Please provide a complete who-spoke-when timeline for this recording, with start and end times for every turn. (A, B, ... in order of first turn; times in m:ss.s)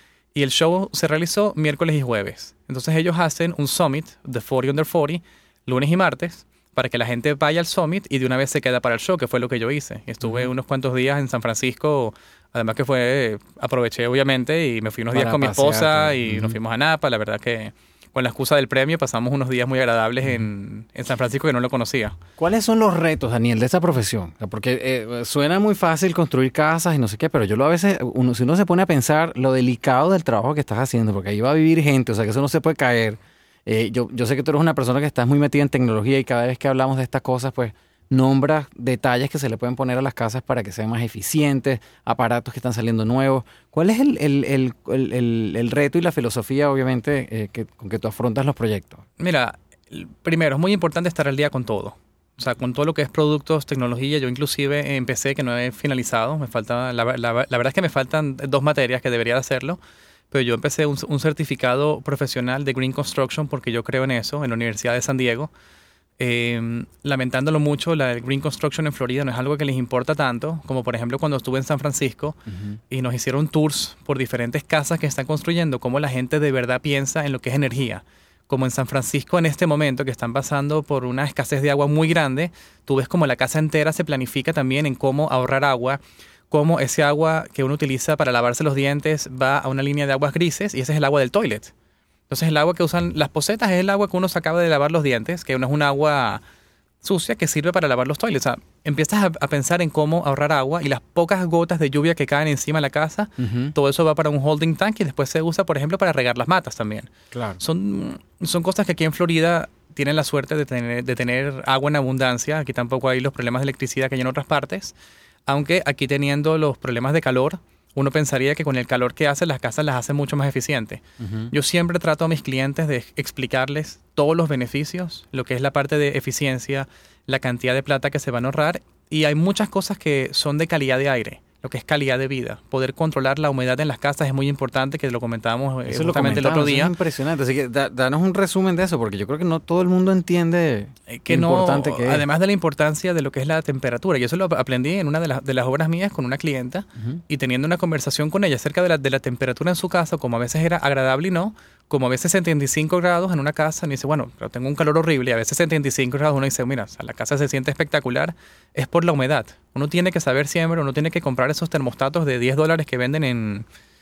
0:00.3-0:22.2 A
0:10.2-0:10.5 B
0:15.1-0:16.6 B
0:22.4-0:49.0 B
0:49.2-0:59.8 A
1:00.3-1:05.5 A
1:06.2-1:31.7 A
1:12.5-1:12.8 B
1:32.3-1:36.4 A
1:37.0-1:54.9 A
1:43.4-1:43.7 B
1:47.3-1:47.6 B
1:55.5-2:16.9 A
2:01.2-2:01.5 B
2:15.9-2:22.2 B
2:21.1-2:43.6 A